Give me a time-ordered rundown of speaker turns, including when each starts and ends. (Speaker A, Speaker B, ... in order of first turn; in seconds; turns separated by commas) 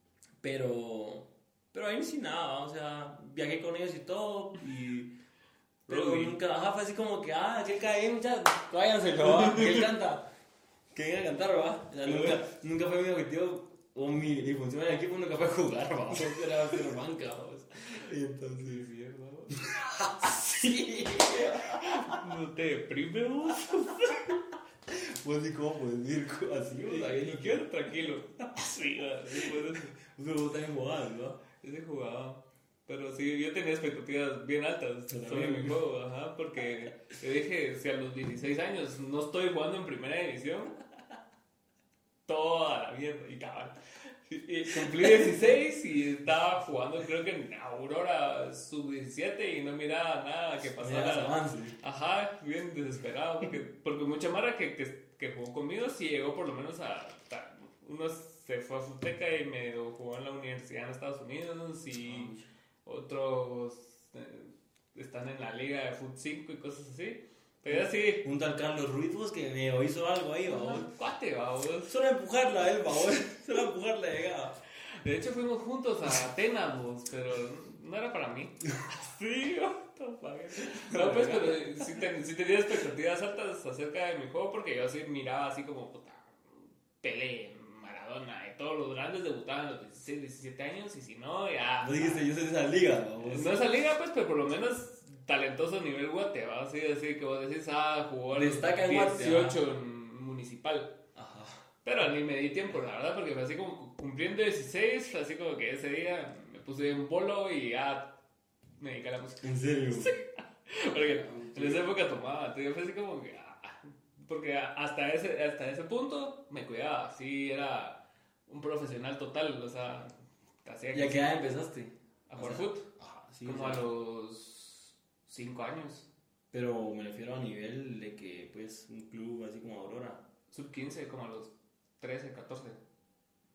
Speaker A: 0.4-5.1, Speaker A: 5.9-10.2, Speaker B: 5.9-6.4, Speaker A: 10.9-18.9, Speaker B: 12.1-12.4, Speaker B: 18.6-19.7, Speaker A: 19.5-22.2, Speaker B: 20.2-20.5, Speaker B: 21.3-24.4, Speaker A: 24.9-28.5, Speaker B: 26.8-29.9, Speaker A: 29.4-31.4, Speaker B: 31.6-40.8, Speaker A: 35.1-35.7, Speaker B: 42.3-62.3, Speaker A: 44.8-45.3, Speaker A: 50.8-51.8, Speaker A: 62.0-62.5, Speaker B: 62.8-68.2, Speaker A: 67.7-70.9, Speaker B: 70.4-71.9, Speaker A: 71.9-74.6, Speaker B: 75.0-86.4, Speaker A: 80.6-82.0, Speaker B: 87.0-92.2, Speaker A: 91.8-93.5, Speaker B: 93.2-101.0, Speaker A: 98.3-99.6, Speaker A: 101.1-101.6, Speaker B: 101.8-108.1, Speaker B: 108.8-120.1, Speaker A: 109.4-110.1, Speaker A: 111.0-111.8, Speaker B: 120.6-121.3, Speaker A: 120.9-123.8, Speaker B: 122.3-122.9, Speaker B: 123.4-126.1, Speaker A: 126.5-130.2, Speaker B: 130.5-132.8